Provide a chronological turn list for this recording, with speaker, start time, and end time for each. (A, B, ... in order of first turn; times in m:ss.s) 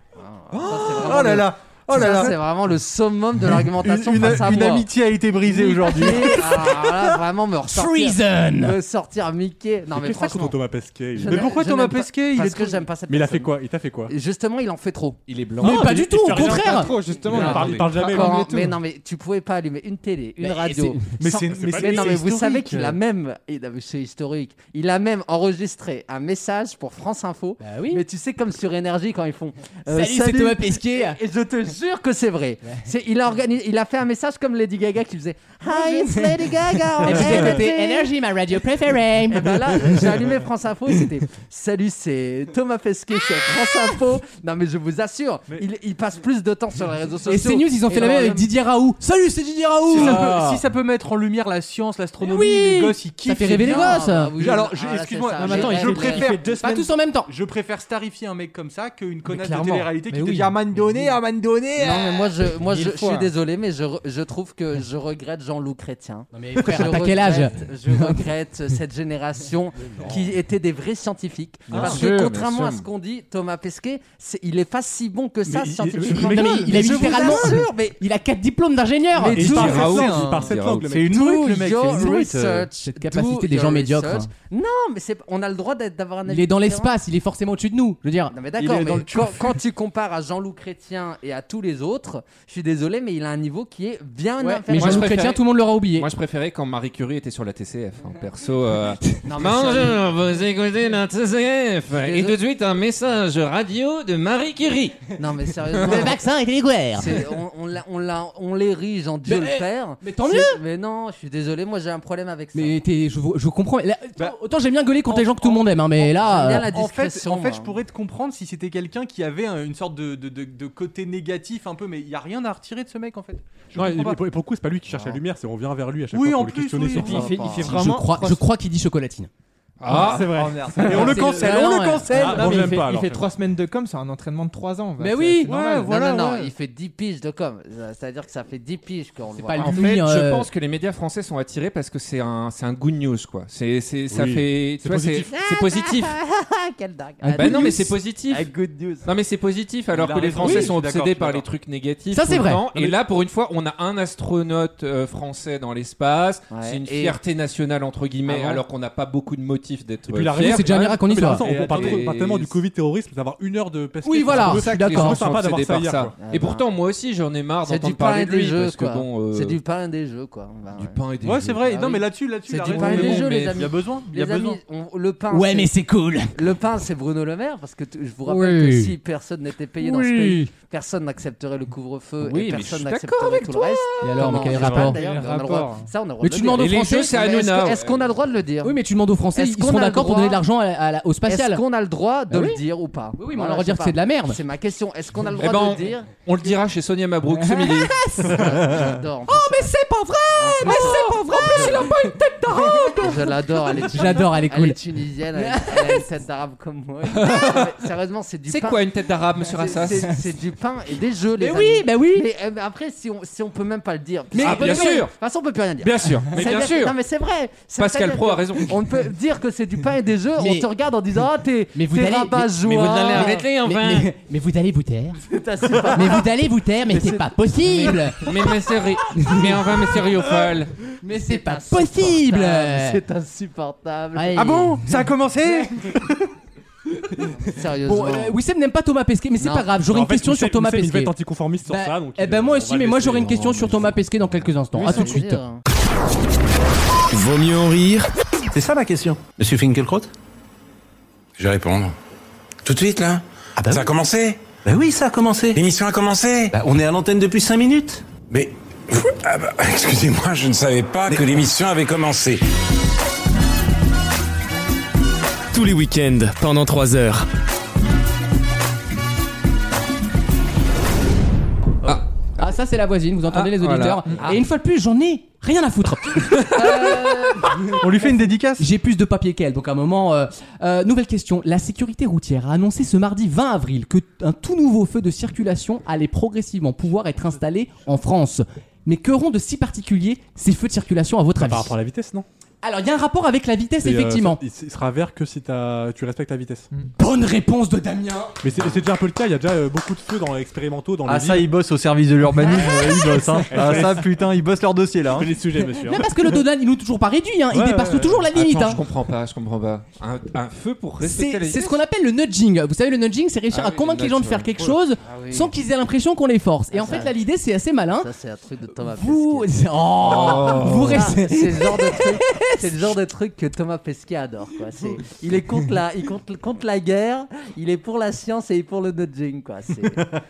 0:00.2-0:04.9 A
0:00.5-0:02.4 B
0:03.6-0:06.9 B
0:05.4-0:10.6 A
0:07.7-0:08.8 C
0:09.9-0:11.5 D
0:11.2-0:13.5 A
0:11.2-0:12.8 B
0:13.1-0:14.1 D
0:14.1-0:15.2 A
0:15.3-0:16.0 E
0:15.6-0:18.5 D
0:15.6-0:16.9 C
0:16.4-0:18.7 F
0:17.3-0:38.1 A
0:17.4-0:17.9 B
0:20.4-0:21.0 C
0:21.2-0:23.0 B
0:21.4-0:22.2 D
0:27.6-0:28.0 C
0:29.9-0:31.2 C
0:35.7-0:40.1 C
0:39.3-0:48.5 A
0:47.3-0:50.5 C
0:49.9-1:02.3 B
0:52.2-0:54.3 C
0:53.6-0:56.3 A
0:55.4-0:56.6 F
0:56.4-0:57.3 C
0:59.4-1:00.5 F
1:01.8-1:18.0 A
1:02.6-1:03.3 F
1:06.3-1:08.2 C
1:11.7-1:12.8 E
1:15.5-1:17.3 D
1:16.0-1:17.4 B
1:16.1-1:19.6 C
1:19.2-1:22.6 B
1:19.3-1:20.0 A
1:19.3-1:21.2 D
1:19.5-1:20.9 E
1:21.1-1:27.0 A
1:22.8-1:24.3 C
1:26.3-1:28.3 C
1:28.3-1:35.2 A
1:28.6-1:29.6 B
1:34.4-1:36.1 C
1:34.7-1:45.1 E
1:39.3-1:40.1 A
1:41.9-1:42.4 A
1:45.2-1:46.2 A
1:45.8-1:47.2 C
1:46.9-1:52.8 A
1:49.2-1:50.6 C
1:52.5-1:56.6 C
1:55.1-1:55.7 B
1:56.0-1:57.8 A
1:56.2-2:04.2 B
2:03.7-2:07.5 D
2:06.1-2:07.9 B
2:06.9-2:08.4 F
2:07.0-2:07.8 A
2:07.6-2:09.3 C
2:09.8-2:10.3 E
2:09.9-2:15.9 F
2:09.9-2:12.7 B
2:10.8-2:12.2 C
2:12.1-2:13.3 D
2:15.0-2:15.5 C
2:15.4-2:16.5 B
2:15.9-2:19.8 A
2:19.4-2:20.5 C
2:19.6-2:26.1 E
2:24.1-2:25.3 D
2:25.3-2:29.1 A
2:27.2-2:27.9 C
2:27.4-2:28.5 E
2:29.0-2:42.6 E
2:29.9-2:31.4 B
2:32.1-2:32.6 C
2:36.5-2:37.2 A
2:38.2-2:38.6 A
2:40.1-2:46.1 D
2:40.4-2:41.4 C
2:41.4-2:42.0 B
2:44.0-2:45.2 C
2:44.2-2:49.6 E
2:46.2-2:46.6 A
2:47.6-2:51.0 A
2:50.7-2:52.0 E
2:51.2-2:54.6 B
2:52.4-2:55.7 A
2:52.6-2:53.6 E
2:55.3-2:56.4 C
2:56.3-3:08.8 A
2:58.2-2:58.9 C
2:59.8-3:00.5 C
3:02.2-3:04.4 E
3:04.0-3:05.0 C
3:04.5-3:04.9 B
3:04.8-3:05.9 F
3:06.2-3:07.1 C
3:06.5-3:08.2 E
3:08.6-3:11.6 C
3:09.3-3:10.4 A
3:11.3-3:16.1 A
3:12.3-3:12.6 C
3:13.2-3:14.4 C
3:15.4-3:18.0 E
3:17.3-3:18.6 C
3:18.2-3:19.7 A
3:19.3-3:23.2 C
3:20.4-3:22.0 A
3:20.6-3:24.2 E
3:23.0-3:28.8 A
3:23.8-3:24.8 C
3:25.3-3:26.0 C
3:27.1-3:27.8 E
3:28.4-3:30.2 E
3:29.4-3:43.4 A
3:31.4-3:32.3 C
3:34.3-3:35.0 C
3:34.4-3:35.1 E
3:35.8-3:37.0 E
3:37.8-3:38.7 E
3:40.4-3:40.7 C
3:41.7-3:45.2 C
3:42.6-3:44.1 E
3:45.2-3:46.3 A
3:45.9-3:48.2 C
3:46.9-3:48.7 A
3:48.2-3:50.7 E
3:49.2-3:49.4 C
3:51.0-3:53.0 C
3:51.1-3:54.7 A
3:54.1-3:56.0 C
3:54.3-3:56.1 B
3:57.0-3:57.3 C
3:57.4-3:58.4 A
3:57.8-4:01.1 C
3:59.4-3:59.7 A
3:59.8-4:04.1 D
4:01.7-4:05.4 C
4:04.8-4:05.6 A
4:07.1-4:08.1 G
4:08.5-4:10.1 H
4:11.4-4:11.9 I
4:12.6-4:14.4 I
4:13.6-4:13.9 H
4:14.6-4:15.6 H
4:15.5-4:16.5 I
4:16.5-4:18.0 H
4:18.3-4:22.4 I
4:25.5-4:27.3 G
4:32.4-4:51.7 C
4:33.3-4:34.0 E
4:36.3-4:37.0 E
4:36.6-4:37.4 A
4:37.7-4:38.7 B
4:51.4-4:52.2 D
4:52.6-4:54.4 C
4:53.8-4:56.7 D
4:57.0-4:58.3 C
4:58.4-5:01.5 D
5:01.0-5:05.3 B
5:02.4-5:03.5 C
5:03.5-5:04.1 D
5:05.1-5:06.4 D
5:05.8-5:08.8 C
5:07.5-5:08.2 D
5:08.3-5:11.8 E
5:11.0-5:18.1 C
5:13.5-5:14.5 E
5:15.0-5:15.5 A
5:16.7-5:17.1 A
5:18.0-5:30.0 A
5:18.9-5:22.7 C
5:20.0-5:21.1 E